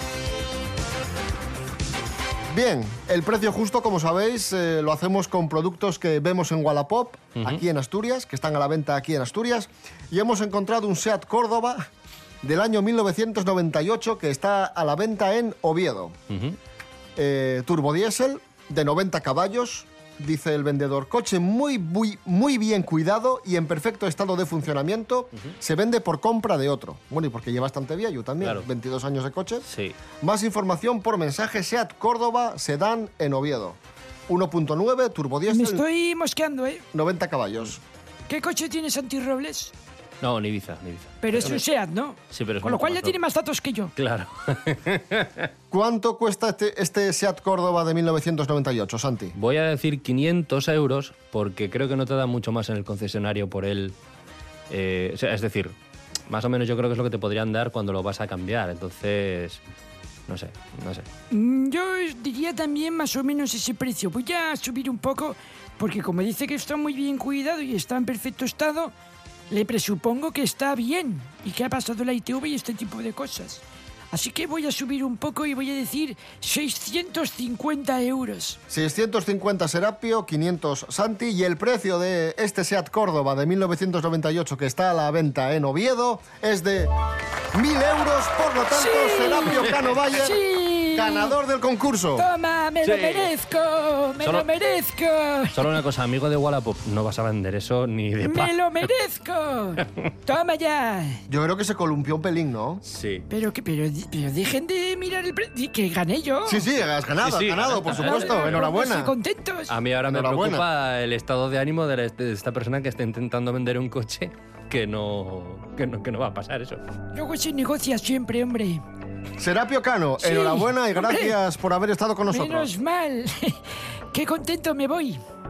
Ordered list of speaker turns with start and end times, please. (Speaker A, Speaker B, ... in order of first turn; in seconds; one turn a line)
Speaker A: 2.5-11.9
Speaker B: 7.3-7.6
Speaker A: 12.4-16.2
Speaker B: 16.3-16.6
Speaker A: 17.2-29.6
Speaker B: 29.7-30.0
Speaker A: 30.2-35.8
Speaker C: 35.5-36.8
Speaker A: 36.9-37.8
Speaker C: 38.3-39.7
Speaker B: 40.2-41.6
Speaker C: 41.2-43.9
Speaker B: 42.3-43.1
Speaker B: 44.0-45.5
Speaker A: 45.7-49.3
Speaker B: 49.4-53.9
Speaker B: 54.7-55.7
Speaker B: 56.3-59.6
Speaker B: 60.3-61.1
Speaker C: 61.3-68.9
Speaker C: 69.5-78.6
Speaker A: 78.7-86.9
Speaker A: 87.5-90.4
Speaker C: 88.7-91.3
Speaker A: 90.9-92.3
Speaker C: 92.2-95.6
Speaker B: 92.8-93.3
Speaker B: 94.2-94.5
Speaker B: 95.5-98.9
Speaker C: 98.2-101.2
Speaker A: 101.3-102.8
Speaker B: 102.8-103.2
Speaker C: 103.3-106.6
Speaker A: 106.5-109.1
Speaker B: 107.2-108.6
Speaker C: 107.9-109.7
Speaker B: 109.7-116.8
Speaker A: 110.0-110.7
Speaker C: 117.1-118.8
Speaker A: 119.4-122.7
Speaker C: 120.2-121.3
Speaker C: 122.3-123.6
Speaker C: 124.1-125.2